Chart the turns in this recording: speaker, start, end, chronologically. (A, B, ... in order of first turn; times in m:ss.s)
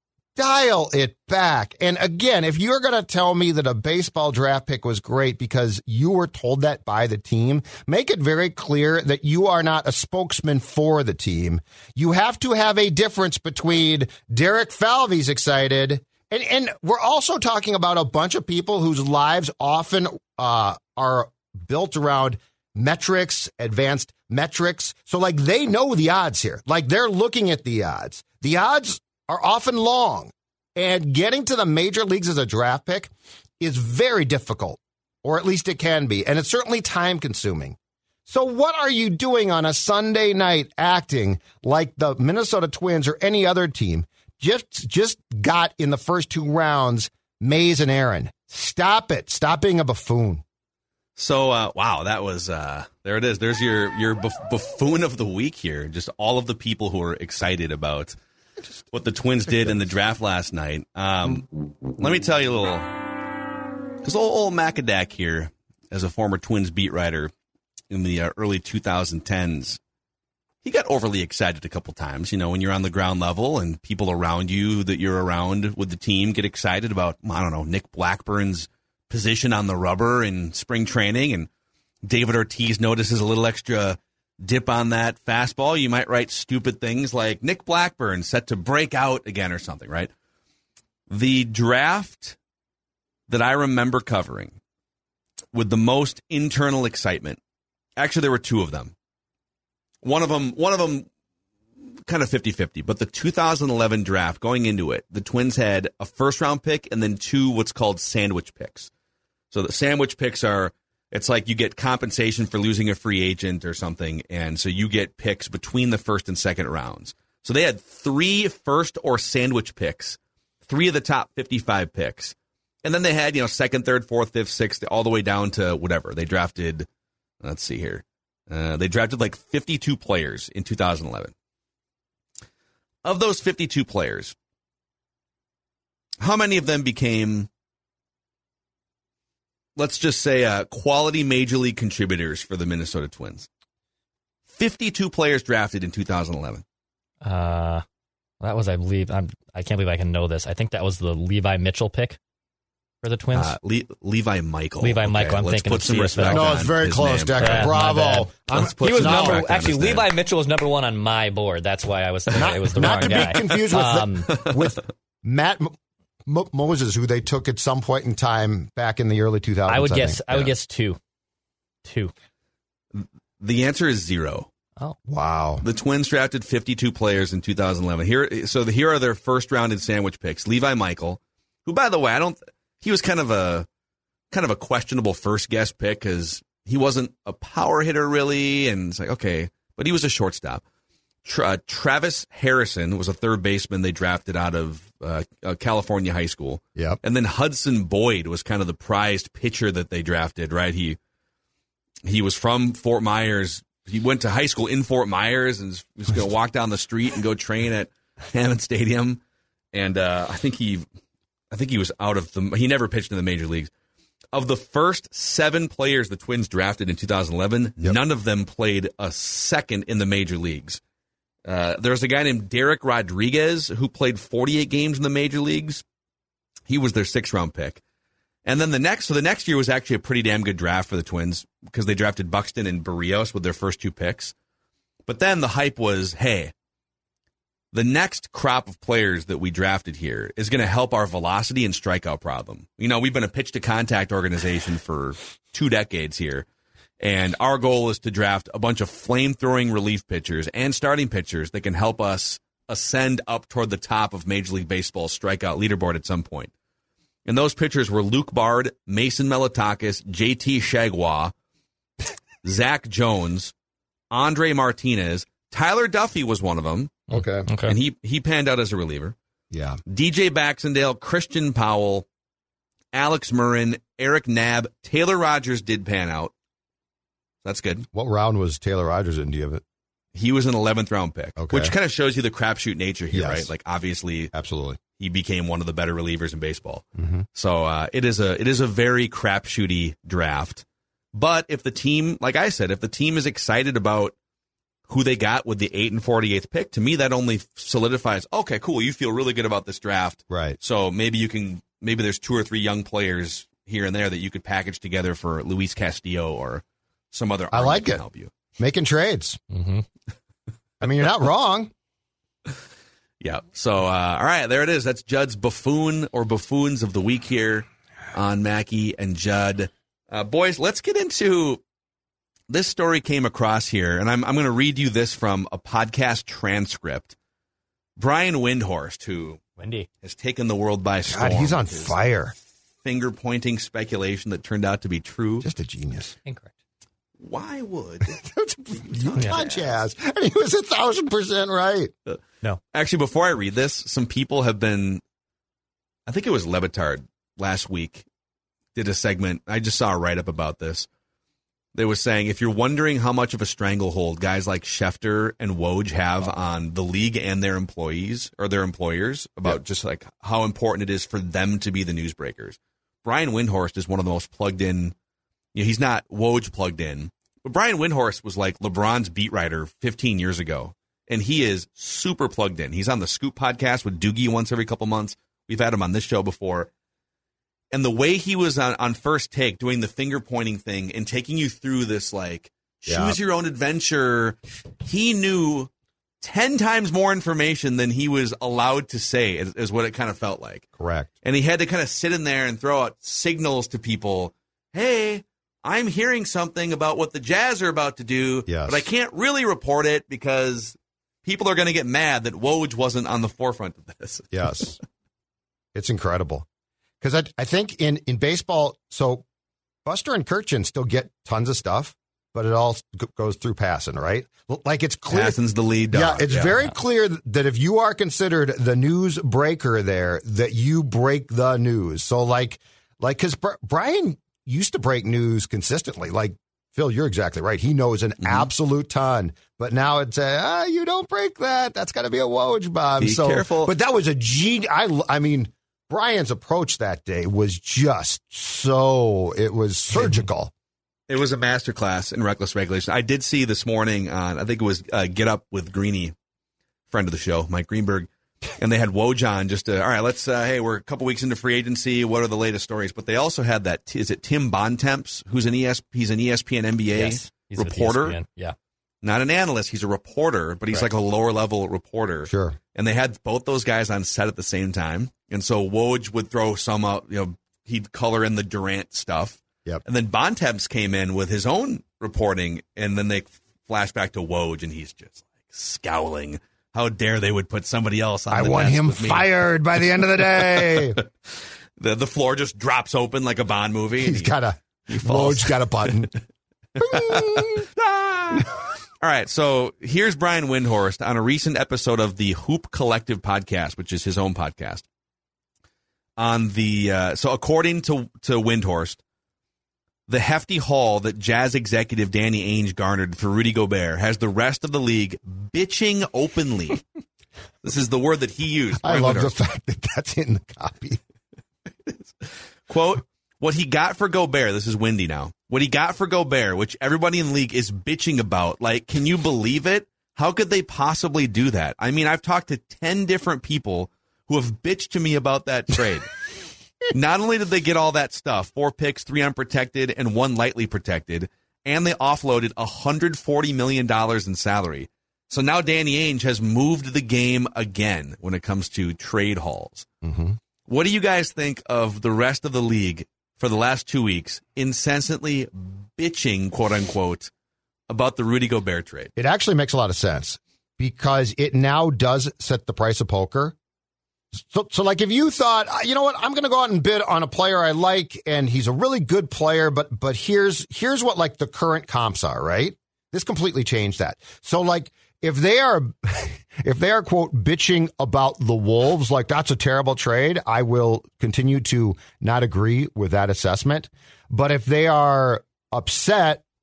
0:00.4-0:50.4 A
0:51.2-0:58.2 B
0:58.9-1:03.1 B
1:04.0-1:07.3 B
1:07.9-1:09.8 B
1:10.6-1:21.5 B
1:22.0-1:30.1 B
1:31.1-1:32.4 B
1:33.3-1:34.6 B
1:35.5-1:37.4 B
1:38.0-1:38.9 B
1:40.0-1:41.1 B
1:42.1-1:48.9 B
1:49.5-2:06.9 B
2:07.4-2:11.3 B
2:13.0-2:14.3 B
2:16.2-2:17.5 B
2:19.8-2:23.5 B
2:24.5-2:26.6 B
2:27.2-2:27.8 C
2:28.4-2:32.2 C
2:33.0-2:33.6 C
2:33.3-2:37.8 B
2:34.8-2:36.7 C
2:36.2-2:39.4 A
2:37.4-2:44.4 C
2:38.5-2:40.1 B
2:42.3-2:50.5 A
2:42.8-2:43.7 B
2:44.3-2:44.7 B
2:49.7-2:51.0 C
2:51.8-2:52.1 C
2:52.9-2:54.5 B
2:55.1-2:55.6 A
2:55.6-3:03.7 B
3:04.3-3:10.6 B
3:11.2-3:21.0 B
3:22.0-3:29.2 B
3:29.7-3:30.9 B
3:31.5-3:33.7 B
3:34.3-3:40.8 B
3:41.5-3:45.8 B
3:46.7-3:47.8 B
3:48.4-3:54.3 B
3:55.1-3:56.5 B
3:57.7-4:06.5 B
4:07.0-4:16.5 B
4:17.2-4:21.3 B
4:22.4-4:23.5 B
4:24.1-4:27.0 B
4:27.1-4:27.5 A
4:27.1-4:27.8 C
4:27.7-4:29.2 B
4:29.5-4:29.8 A
4:29.9-4:32.1 B
4:32.9-4:36.3 B
4:37.4-4:37.9 B
4:37.9-4:39.6 A
4:40.2-4:44.3 B
4:41.4-4:41.7 A
4:43.1-4:43.5 A
4:44.3-4:44.8 A
4:45.0-4:54.2 B
4:47.0-4:47.2 A
4:54.9-5:08.3 B
5:00.3-5:00.6 A
5:07.5-5:08.0 A
5:08.6-5:09.4 A
5:09.5-5:09.8 C
5:10.8-5:11.7 A
5:13.2-5:21.6 B
5:22.5-5:27.2 B
5:28.0-5:29.4 B
5:29.6-5:29.9 C
5:30.0-5:32.0 B
5:31.1-5:32.4 A
5:32.8-5:35.5 B
5:35.4-5:36.1 A
5:36.2-5:36.5 C
5:37.2-5:38.1 B
5:38.0-5:41.9 A
5:39.0-5:39.6 B
5:42.7-5:45.0 B
5:46.1-5:48.1 B
5:48.7-5:50.9 B
5:51.8-6:04.9 B
6:05.6-6:16.7 B
6:17.7-6:25.7 B
6:22.9-6:23.2 A
6:26.2-6:30.7 B
6:30.8-6:31.1 A
6:31.2-6:44.7 B
6:38.5-6:38.8 A
6:44.3-6:44.8 A
6:45.8-6:46.5 A
6:47.0-6:49.3 A
6:49.8-6:55.4 A
6:55.1-6:56.6 B
6:55.9-7:20.5 A
7:08.2-7:08.5 B
7:13.0-7:13.7 B
7:21.1-7:26.1 B
7:26.9-7:38.2 B
7:36.9-7:38.6 C
7:39.0-7:59.3 B
7:42.3-7:42.6 A
7:58.3-8:01.0 A
8:00.2-8:04.3 B
8:04.0-8:06.2 A
8:04.9-8:06.2 B
8:06.8-8:14.8 B
8:06.8-8:07.7 A
8:16.2-8:19.0 B
8:20.1-8:26.8 B
8:27.6-8:29.4 B
8:28.8-8:31.0 A
8:31.9-8:46.1 B
8:46.9-8:59.9 B
9:00.0-9:00.4 A
9:00.7-9:07.3 B
9:07.9-9:09.1 B
9:09.2-9:13.6 A
9:14.4-9:36.4 A